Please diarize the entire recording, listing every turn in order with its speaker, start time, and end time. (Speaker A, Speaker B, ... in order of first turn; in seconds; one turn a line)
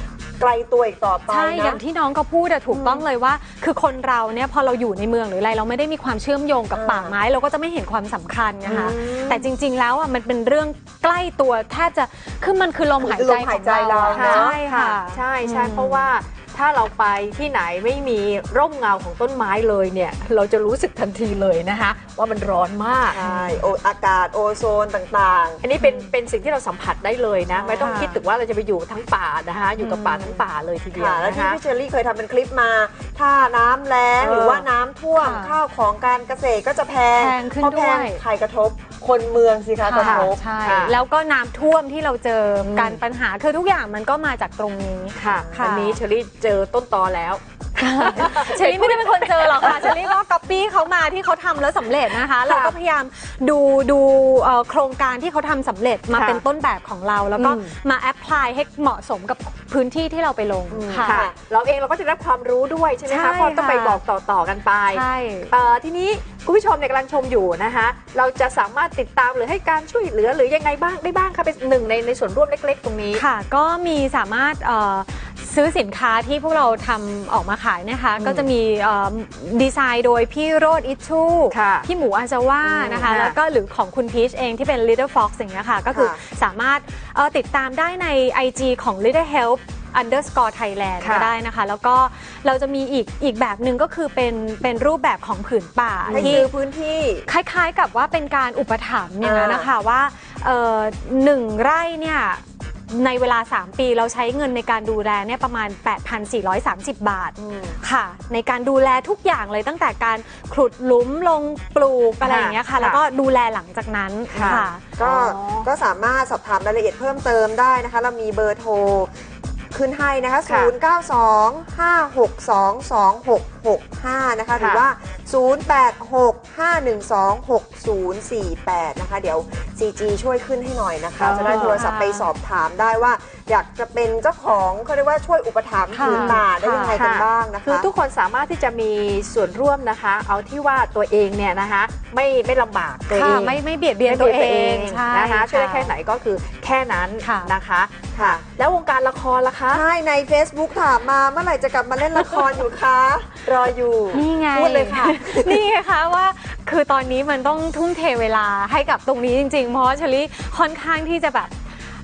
Speaker A: 0.4-1.8
Speaker B: 1.3-16.1
Speaker A: 2.7-3.0
Speaker A: 6.7-7.2
Speaker C: 8.6-9.5
Speaker A: 13.0-14.5
Speaker C: 14.1-23.2
Speaker A: 23.1-25.6
Speaker B: 23.2-23.6
Speaker C: 25.6-31.6
Speaker B: 25.8-26.1
Speaker A: 27.5-28.1
Speaker B: 27.8-28.2
Speaker B: 29.8-30.4
Speaker A: 30.9-40.4
Speaker C: 34.2-34.7
Speaker B: 35.2-35.6
Speaker B: 37.1-38.2
Speaker B: 39.8-46.0
Speaker C: 40.0-41.0
Speaker C: 42.6-43.0
Speaker C: 45.1-50.0
Speaker A: 45.3-45.7
Speaker B: 47.8-61.2
Speaker C: 52.4-52.7
Speaker C: 56.1-56.4
Speaker C: 57.4-57.7
Speaker A: 60.7-61.3
Speaker C: 61.0-73.2
Speaker B: 63.0-64.0
Speaker B: 64.9-65.5
Speaker B: 73.1-96.5
Speaker C: 78.2-78.5
Speaker C: 81.5-81.9
Speaker C: 82.6-83.3
Speaker A: 85.9-86.2
Speaker C: 91.0-91.3
Speaker C: 96.0-96.4
Speaker A: 96.1-97.3
Speaker B: 97.3-114.8
Speaker A: 99.2-99.7
Speaker A: 107.3-107.8
Speaker C: 112.2-113.0
Speaker C: 114.3-115.7
Speaker A: 114.4-119.1
Speaker A: 119.7-137.9
Speaker C: 120.5-120.7
Speaker C: 124.5-124.9
Speaker C: 131.2-131.8
Speaker B: 131.4-132.3
Speaker B: 135.9-137.0
Speaker C: 136.0-136.4
Speaker C: 136.9-149.8
Speaker B: 143.1-145.9
Speaker B: 147.2-147.5
Speaker A: 148.1-148.4
Speaker A: 149.7-155.6
Speaker B: 154.1-161.5